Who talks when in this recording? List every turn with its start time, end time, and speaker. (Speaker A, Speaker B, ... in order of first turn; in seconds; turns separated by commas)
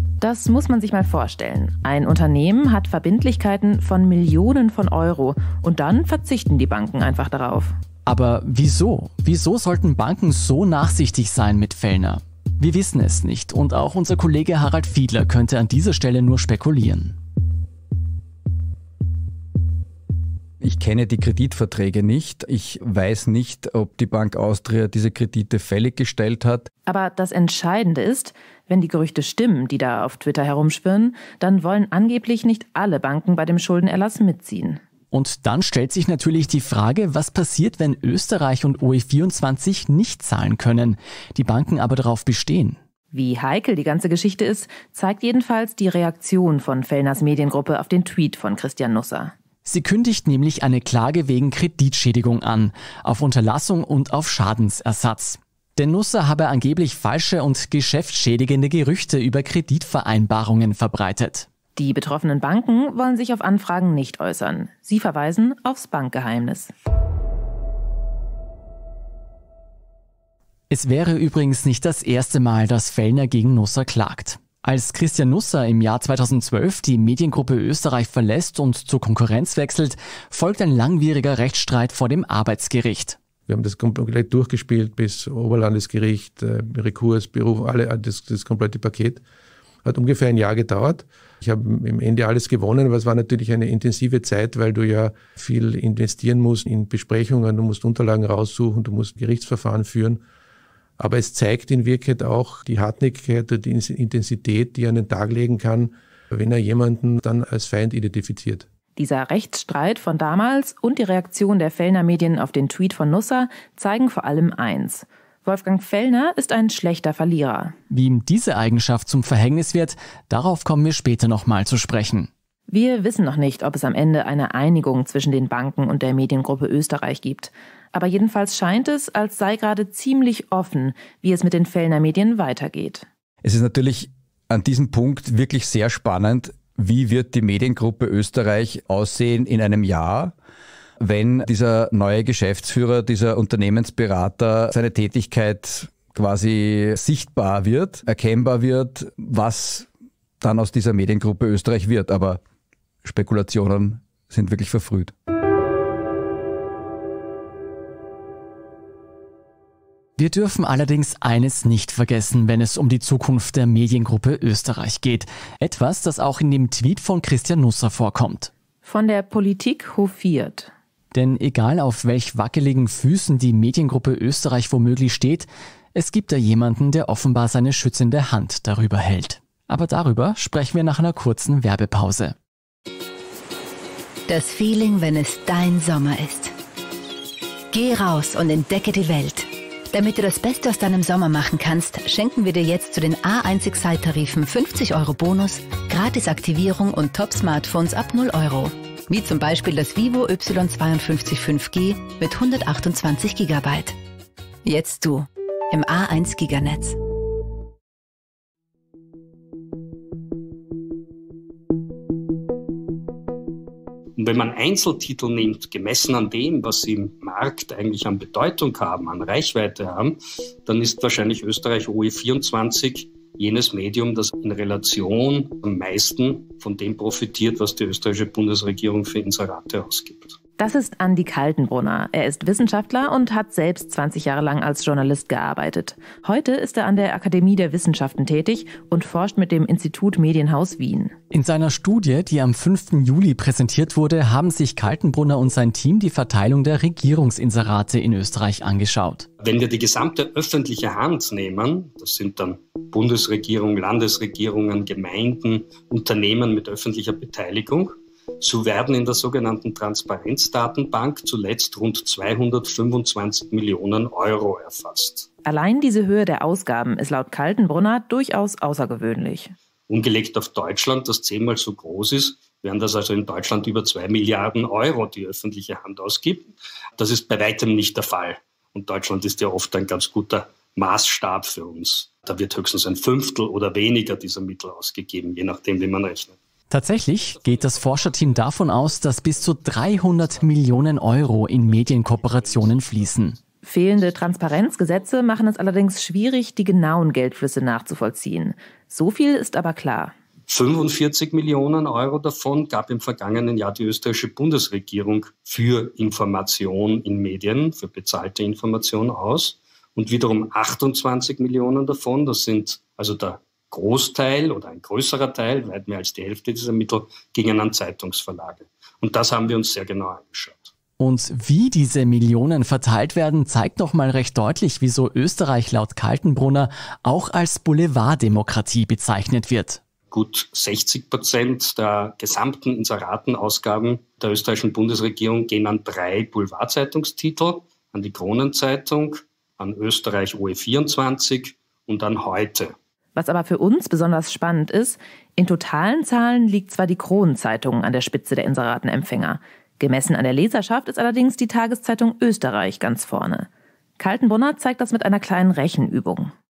Speaker A: 0.2-7.7, Speaker B: 8.1-17.2, Speaker C: 20.6-26.7, Speaker A: 26.9-34.8, Speaker B: 35.1-42.8, Speaker A: 43.1-49.3, Speaker B: 49.6-61.5, Speaker A: 61.8-66.7, Speaker B: 70.7-83.2, Speaker D: 83.5-89.2, Speaker D: 89.8-100.2, Speaker D: 101.0-108.7, Speaker A: 109.0-117.8, Speaker B: 117.9-122.3, Speaker A: 122.7-133.1, Speaker C: 133.4-140.3, Speaker C: 141.0-149.9, Speaker C: 150.4-152.4, Speaker C: 153.0-155.1, Speaker B: 160.2-168.5, Speaker A: 168.8-170.7, Speaker B: 171.1-182.3, Speaker E: 184.3-186.6, Speaker E: 187.7-204.0, Speaker E: 204.7-207.0, Speaker F: 214.2-230.4, Speaker A: 230.6-241.1, Speaker B: 241.3-249.3, Speaker F: 249.4-265.3, Speaker A: 265.4-269.5, Speaker F: 269.9-286.4, Speaker B: 286.7-293.4, Speaker F: 291.9-292.7, Speaker A: 293.6-300.1, Speaker F: 300.5-320.7, Speaker B: 321.0-329.8, Speaker F: 330.1-342.8, Speaker A: 343.2-353.5, Speaker A: 354.0-356.3